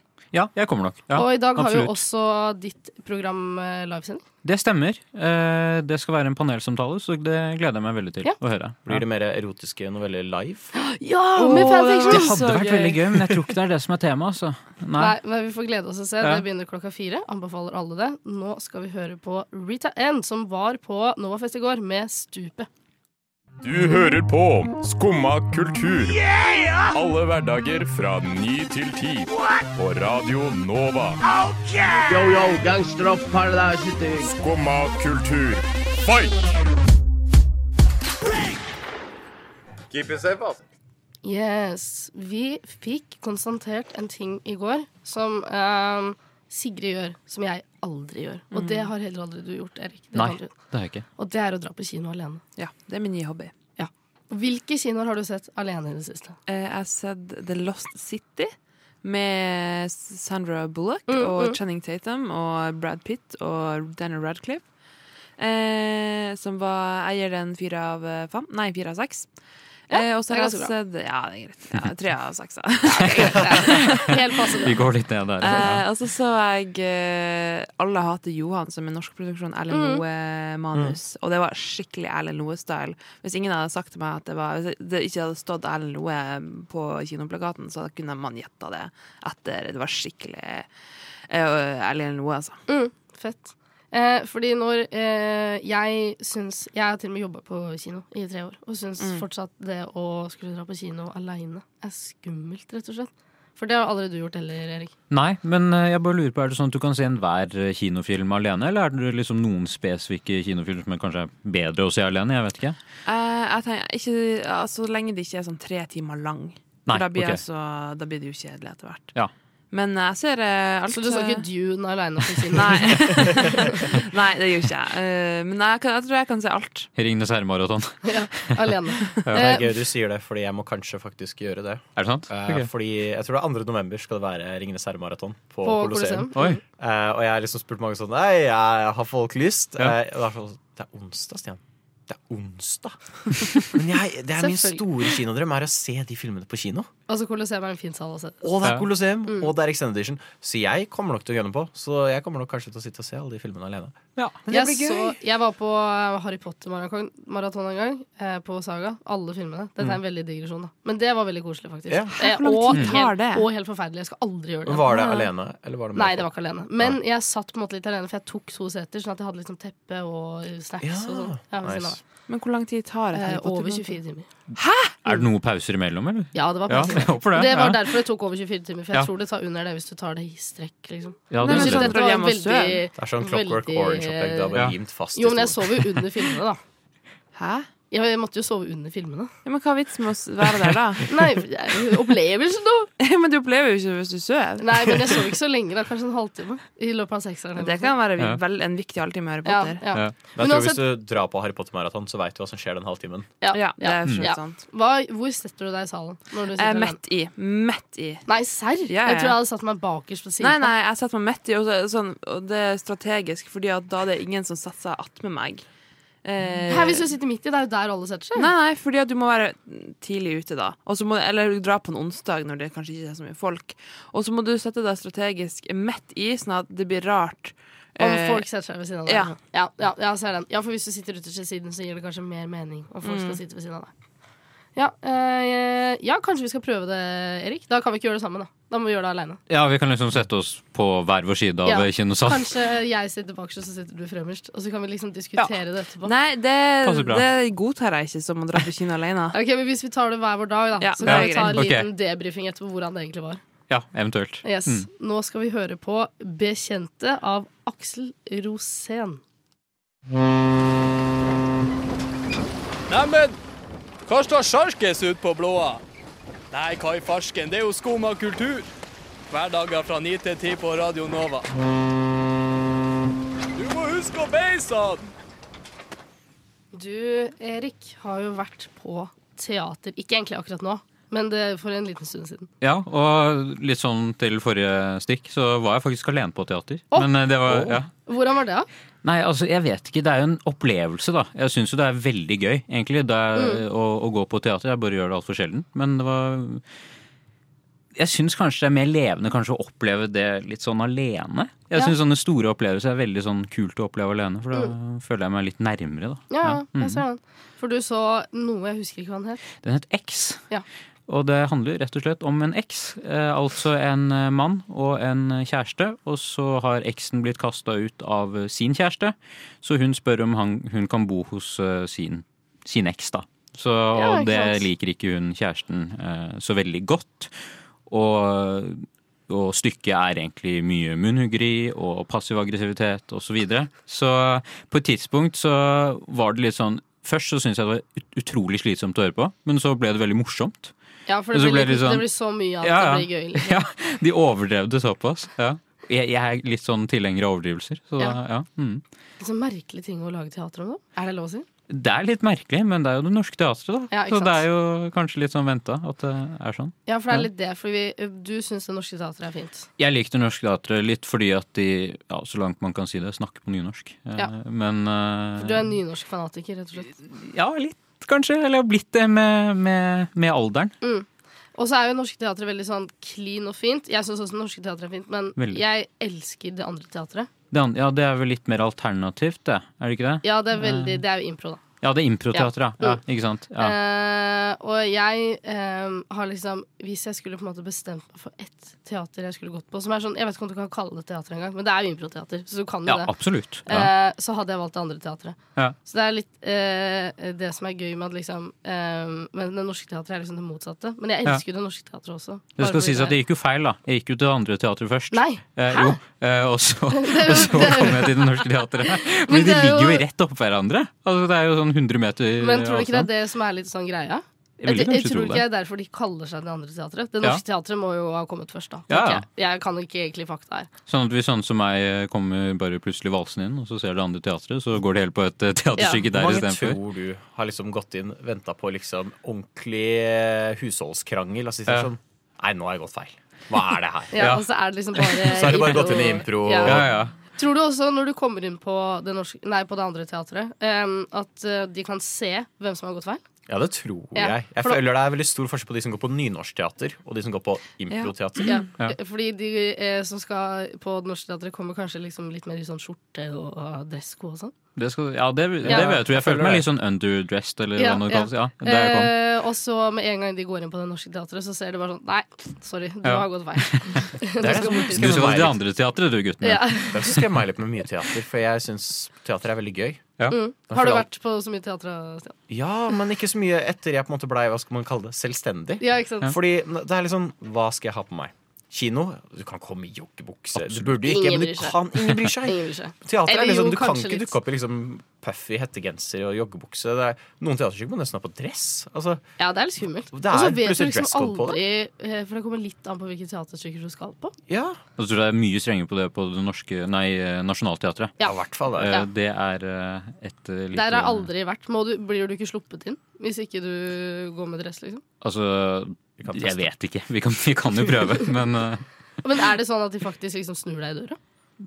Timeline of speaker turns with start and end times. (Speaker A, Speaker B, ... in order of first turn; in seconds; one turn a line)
Speaker A: 0.3-2.0
Speaker B: 1.1-4.2
Speaker A: 4.4-9.0
Speaker C: 8.9-10.7
Speaker B: 10.7-13.0
Speaker D: 11.3-13.2
Speaker A: 11.4-15.2
Speaker B: 15.0-22.7
Speaker E: 23.6-26.2
Speaker E: 26.9-31.2
Speaker F: 32.1-34.3
Speaker E: 34.2-36.4
Speaker E: 39.9-40.6
Speaker B: 41.2-50.5
Speaker D: 48.5-48.9
Speaker A: 50.1-51.0
Speaker B: 51.2-52.4
Speaker D: 52.6-53.5
Speaker B: 53.8-56.4
Speaker D: 56.5-58.5
Speaker D: 59.0-64.7
Speaker B: 61.1-61.6
Speaker D: 65.4-69.3
Speaker D: 69.9-74.2
Speaker B: 69.9-70.7
Speaker B: 72.9-74.8
Speaker A: 73.2-74.1
Speaker A: 74.7-75.8
Speaker D: 75.4-90.7
Speaker B: 79.7-80.0
Speaker D: 91.3-92.6
Speaker B: 92.7-104.9
Speaker D: 99.0-99.2
Speaker A: 105.1-112.8
Speaker D: 113.0-119.1
Speaker A: 116.9-117.4
Speaker D: 119.7-121.5
Speaker B: 120.9-123.8
Speaker D: 122.5-126.9
Speaker A: 127.0-128.7
Speaker B: 128.1-129.7
Speaker A: 129.3-129.5
Speaker C: 129.3-146.9
Speaker A: 132.0-132.7
Speaker B: 135.6-136.6
Speaker B: 144.4-144.8
Speaker B: 147.1-148.4
Speaker C: 148.4-155.2
Speaker A: 148.6-148.9
Speaker B: 149.3-149.5
Speaker B: 154.5-165.2
Speaker C: 161.9-162.2
Speaker D: 162.2-163.5
Speaker C: 164.7-167.0
Speaker D: 164.9-165.3
Speaker B: 165.9-172.0
Speaker C: 170.8-172.0
Speaker D: 172.3-174.0
Speaker B: 173.1-174.3
Speaker D: 174.6-175.2
Speaker A: 175.0-177.9
Speaker B: 176.3-184.6
Speaker A: 181.3-181.9
Speaker D: 181.4-182.8
Speaker C: 183.0-185.9
Speaker B: 185.2-186.6
Speaker D: 187.3-187.7
Speaker B: 187.9-189.3
Speaker D: 189.4-191.1
Speaker B: 191.1-192.9
Speaker D: 193.0-195.2
Speaker B: 194.6-197.9
Speaker D: 197.6-199.8
Speaker B: 199.4-200.8
Speaker C: 200.4-203.3
Speaker B: 203.4-207.0
Speaker D: 203.5-204.6
Speaker D: 206.5-208.3
Speaker B: 208.3-210.7
Speaker D: 208.9-209.4
Speaker D: 210.4-215.7
Speaker D: 216.2-217.1
Speaker B: 216.7-218.5
Speaker D: 218.4-228.5
Speaker B: 228.0-233.9
Speaker D: 229.1-229.3
Speaker D: 233.0-233.4
Speaker B: 234.8-239.4
Speaker A: 239.5-242.5
Speaker B: 241.7-246.1
Speaker D: 246.0-249.4
Speaker A: 246.8-247.3
Speaker B: 249.3-253.4
Speaker D: 250.8-251.7
Speaker A: 251.0-251.9
Speaker A: 253.7-254.9
Speaker B: 254.4-259.2
Speaker G: 262.9-263.4
Speaker G: 264.1-265.8
Speaker G: 266.5-268.7
Speaker G: 269.3-271.5
Speaker G: 273.6-275.1
Speaker B: 276.7-282.5
Speaker A: 282.6-287.9
Speaker C: 287.5-287.8
Speaker B: 288.1-288.7
Speaker A: 289.0-296.6
Speaker B: 293.4-293.6
Speaker A: 298.0-307.0
Speaker B: 306.3-309.4
Speaker A: 309.6-310.4
Speaker A: 311.1-327.3
Speaker B: 323.9-324.6
Speaker A: 327.9-340.7
Speaker B: 341.1-343.6
Speaker A: 341.3-342.1
Speaker A: 342.6-348.8
Speaker B: 349.2-351.5
Speaker A: 351.7-357.3
Speaker B: 353.9-354.4
Speaker B: 356.9-359.7
Speaker A: 359.8-365.7
Speaker B: 365.4-366.9
Speaker A: 367.1-370.7
Speaker B: 370.8-377.3
Speaker A: 377.5-381.0
Speaker B: 380.2-381.6
Speaker A: 381.8-383.8
Speaker B: 382.3-383.0
Speaker B: 383.6-393.1
Speaker A: 392.9-393.9
Speaker B: 393.7-403.2
Speaker A: 402.6-413.1
Speaker B: 405.1-406.0
Speaker B: 406.9-410.0
Speaker B: 412.4-420.7
Speaker A: 414.6-415.4
Speaker A: 418.9-419.2
Speaker A: 420.9-426.8
Speaker B: 425.8-426.0
Speaker C: 426.1-434.3
Speaker B: 434.1-436.8
Speaker A: 435.0-435.8
Speaker C: 435.2-437.0
Speaker A: 436.6-437.1
Speaker B: 437.4-443.2
Speaker C: 443.5-448.6
Speaker B: 444.1-444.8
Speaker D: 447.9-448.6
Speaker B: 448.4-454.5
Speaker A: 454.8-459.1
Speaker C: 455.6-456.7
Speaker B: 455.7-456.0
Speaker B: 457.8-465.3
Speaker A: 463.1-467.2
Speaker C: 464.4-465.6
Speaker B: 466.4-467.2
Speaker C: 466.9-470.1
Speaker B: 470.3-472.4
Speaker C: 470.7-471.1
Speaker C: 472.5-489.2
Speaker B: 475.8-476.3
Speaker A: 480.6-480.9
Speaker B: 481.0-484.3
Speaker B: 489.4-494.3
Speaker C: 490.1-491.6
Speaker C: 494.5-494.8
Speaker A: 495.0-498.2
Speaker B: 498.2-499.1
Speaker C: 498.2-499.0
Speaker A: 498.7-501.3
Speaker B: 500.7-505.0
Speaker A: 505.2-508.8
Speaker C: 506.2-506.7
Speaker B: 509.2-511.2